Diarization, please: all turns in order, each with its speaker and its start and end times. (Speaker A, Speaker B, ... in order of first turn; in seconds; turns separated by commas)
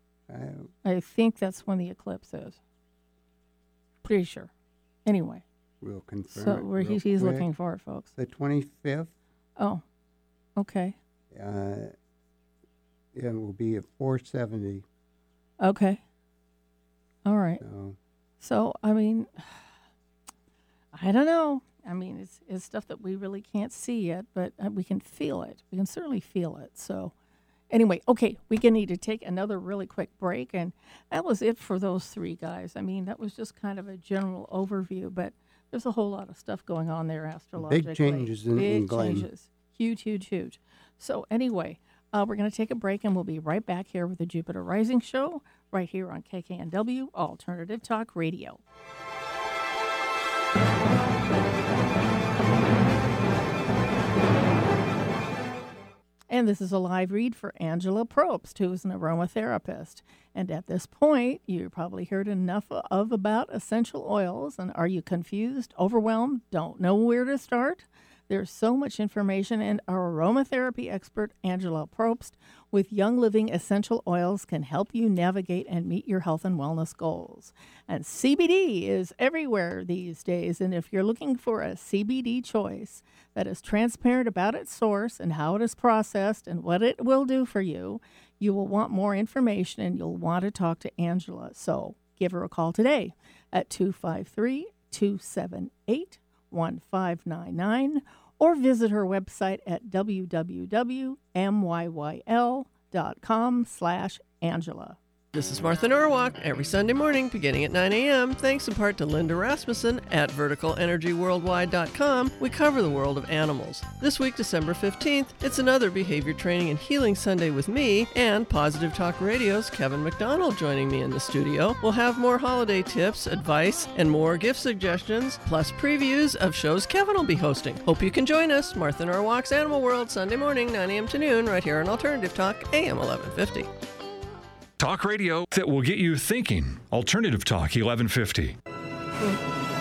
Speaker A: 0.3-0.7, Speaker B: 0.8-2.6, Speaker B: 4.0-4.5, Speaker B: 5.0-5.4, Speaker A: 5.8-7.5, Speaker B: 6.3-8.1, Speaker A: 8.2-9.1, Speaker B: 9.6-9.8, Speaker B: 10.6-11.0, Speaker A: 11.3-11.9, Speaker A: 13.1-14.8, Speaker B: 15.6-16.0, Speaker B: 17.3-17.6, Speaker A: 17.6-18.0, Speaker B: 18.4-19.5, Speaker B: 20.9-27.1, Speaker B: 27.7-48.6, Speaker A: 37.6-39.3, Speaker B: 56.3-105.0, Speaker C: 105.3-133.7, Speaker D: 134.8-138.6